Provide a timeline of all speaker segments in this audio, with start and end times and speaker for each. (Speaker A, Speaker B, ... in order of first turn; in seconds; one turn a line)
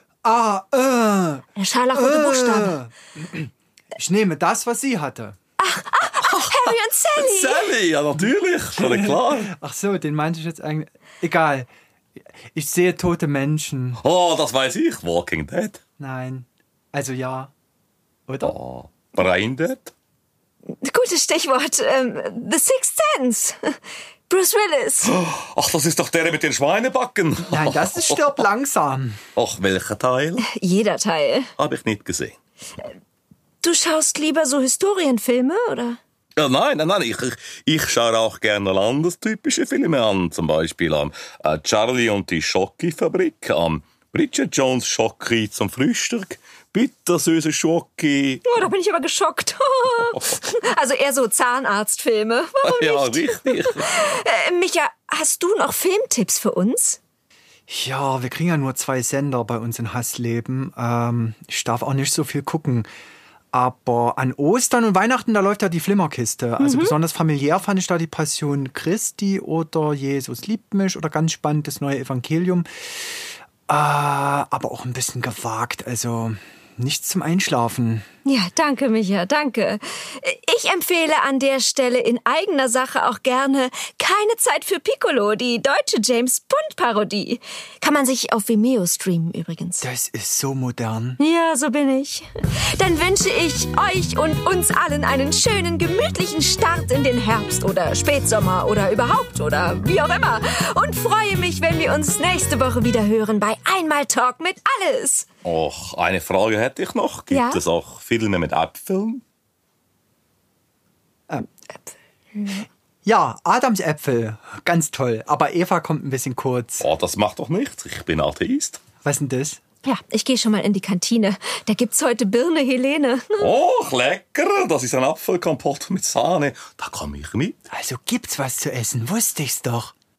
Speaker A: 0.2-5.3
Speaker B: 1.5-2.8
Speaker B: 5.6-7.7
Speaker C: 6.5-9.5
Speaker A: 8.7-11.7
Speaker A: 12.5-14.0
Speaker C: 14.0-15.8
Speaker A: 16.0-17.5
Speaker A: 18.3-18.5
Speaker C: 18.4-19.9
Speaker B: 20.8-23.8
Speaker B: 24.3-25.1
Speaker C: 25.0-28.2
Speaker A: 27.5-29.2
Speaker C: 29.3-30.4
Speaker B: 30.4-31.5
Speaker C: 31.6-32.4
Speaker B: 33.6-36.0
Speaker C: 36.4-48.4
Speaker B: 48.4-57.0
Speaker C: 52.6-53.9
Speaker A: 57.7-62.9
Speaker A: 63.5-72.7
Speaker B: 66.6-66.9
Speaker A: 73.7-78.0
Speaker B: 78.2-89.8
Speaker A: 89.8-91.2
Speaker B: 91.2-105.3
Speaker C: 105.4-109.2
Speaker B: 107.3-107.6
Speaker B: 112.3-112.7
Speaker A: 113.0-116.8
Speaker C: 116.8-118.8
Speaker A: 119.0-119.6
Speaker B: 119.8-123.5
Speaker C: 123.4-127.6
Speaker A: 127.7-129.9